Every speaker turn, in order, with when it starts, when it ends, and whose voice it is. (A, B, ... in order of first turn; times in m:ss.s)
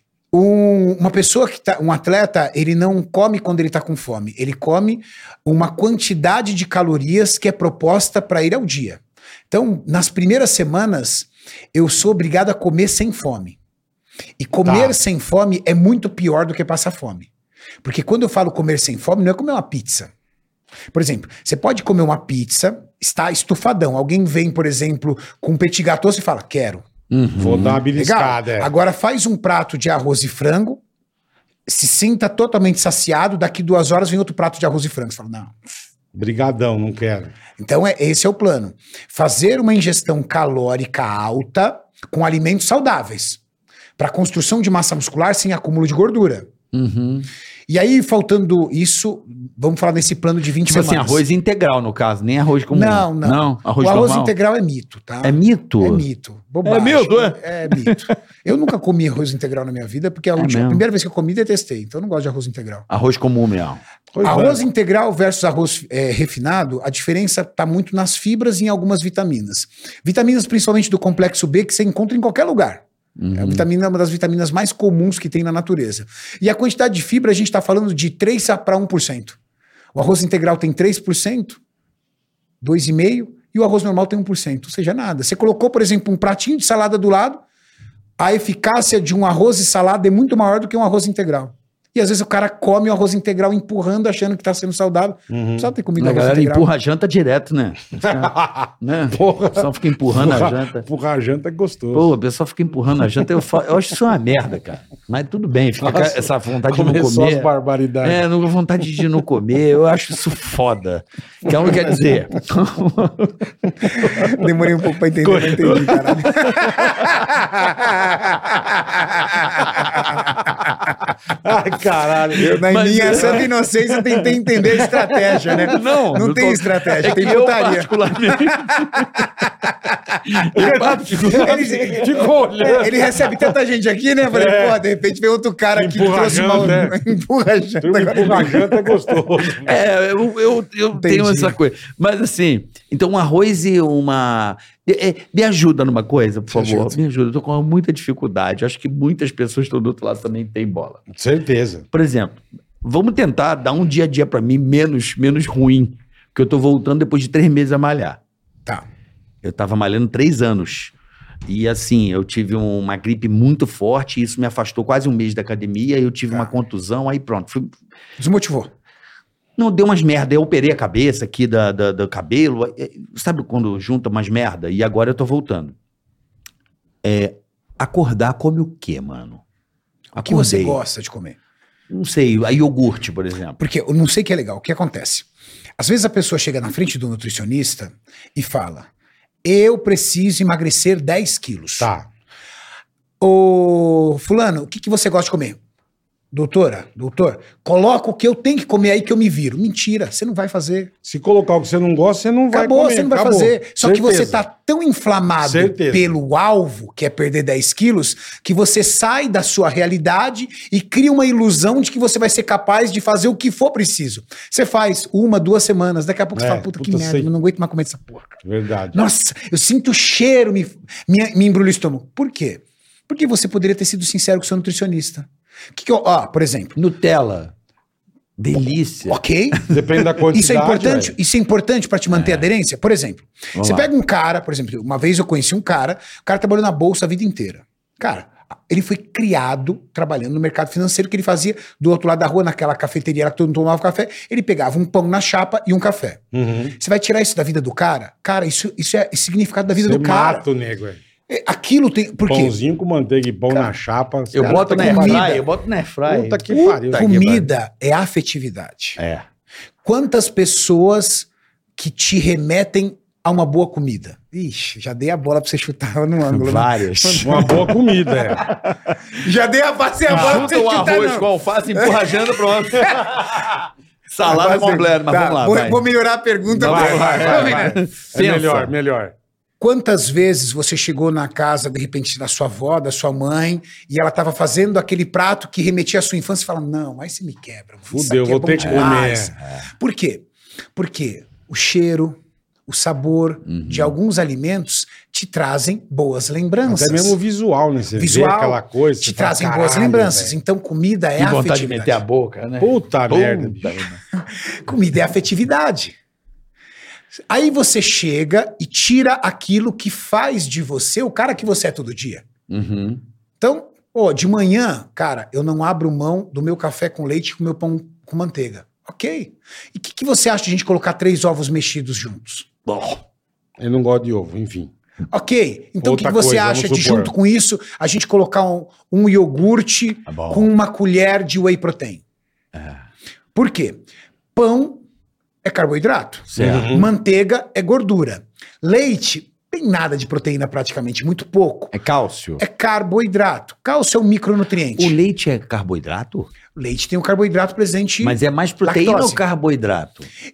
0:00.3-0:13.6 A
0:14.4-0:17.3 A
0:14.6-0:15.0 B
0:17.8-0:20.1 A
0:20.9-0:26.8 A
0:27.1-0:27.8 C
0:27.4-0:28.7 B
0:28.0-0:30.8 A
0:31.7-0:35.7 A
0:36.1-0:37.3 B
0:37.6-0:43.4 A
0:44.0-0:46.5 A
0:46.7-0:47.3 C
0:47.7-0:51.2 A
0:50.7-0:54.3 C
0:52.7-1:02.9 A
0:55.2-0:56.0 C
0:56.6-0:58.1 C
1:00.4-1:00.8 C
1:02.9-1:03.8 C
1:04.1-1:04.7 B
1:04.2-1:12.8 A
1:13.2-1:13.6 C
1:13.4-1:19.4 A
1:19.9-1:21.6 A
1:22.6-1:27.4 A
1:28.2-1:36.7 A
1:35.3-1:35.7 B
1:36.0-1:40.8 C
1:38.0-1:42.1 B
1:41.9-1:47.5 C
1:45.8-1:48.2 B
1:48.0-1:54.3 C
1:51.6-1:52.0 B
1:53.8-1:54.5 B
1:54.0-2:00.6 A
1:55.2-1:57.3 B
1:59.4-2:00.7 C
2:01.4-2:02.6 B
2:02.4-2:19.0 A
2:02.4-2:03.5 C
2:03.1-2:03.5 B
2:04.7-2:05.6 B
2:05.4-2:09.3 C
2:10.3-2:11.6 C
2:10.5-2:13.5 B
2:14.3-2:14.8 B
2:15.7-2:17.0 B
2:17.8-2:19.8 B
2:19.6-2:31.0 C
2:21.0-2:21.6 A
2:26.5-2:27.0 A
2:31.1-2:31.8 B
2:31.9-2:38.2 C
2:39.4-2:40.9 C
2:41.5-2:47.7 C
2:48.2-2:48.7 A
2:49.6-2:55.8 C
2:57.0-2:59.4 C
3:00.2-3:00.8 C
3:00.2-3:01.4 A
3:01.9-3:03.6 C
3:03.6-3:05.3 A
3:05.8-3:08.9 A
3:09.4-3:11.9 A
3:11.8-3:12.1 B
3:13.2-3:15.6 A
3:16.3-3:20.9 A
3:21.0-3:24.4 B
3:22.5-3:46.8 A
3:25.4-3:26.1 B
3:36.4-3:37.3 B
3:38.4-3:39.1 B
3:46.8-3:47.5 C
3:48.4-3:49.2 C
3:49.1-3:49.7 A
3:49.7-3:51.2 B
3:50.3-4:06.2 A
3:52.1-3:52.5 C
3:53.6-3:53.9 C
4:06.3-4:06.8 B
4:06.8-4:10.5 A
4:09.7-4:11.0 B
4:11.3-4:12.6 A
4:12.3-4:15.4 B
4:14.3-4:15.4 A
4:14.3-4:17.4 C
4:16.1-4:17.5 B
4:16.5-4:19.0 A
4:19.0-4:19.2 C
4:19.8-4:28.5 A
4:26.3-4:29.0 C
4:27.2-4:28.4 B
4:29.1-4:33.6 A
4:30.1-4:35.8 C
4:30.1-4:30.5 B
4:34.2-4:37.8 A
4:36.5-4:38.7 C
4:36.6-4:39.1 B
4:39.6-4:57.2 A
4:47.9-4:49.3 B
4:48.6-4:49.7 C
4:53.5-4:53.9 C
4:56.6-5:00.4 B
4:58.0-5:02.0 A
5:01.2-5:04.0 C
5:02.6-5:03.6 B
5:04.1-5:06.0 A
5:07.3-5:12.2 A
5:12.5-5:13.0 C
5:13.4-5:22.5 A
5:22.7-5:23.0 C
5:23.6-5:24.7 B
5:25.1-5:32.0 A
5:25.8-5:27.1 B
5:30.1-5:30.5 C
5:32.5-5:32.8 C
5:33.4-5:33.8 A
5:34.4-5:34.8 A
5:35.4-5:41.7 A
5:36.3-5:36.7 C
5:36.4-5:36.9 B
5:41.7-5:42.4 C
5:42.4-5:45.0 A
5:44.8-5:46.3 C
5:46.6-5:49.2 A
5:48.0-5:50.1 C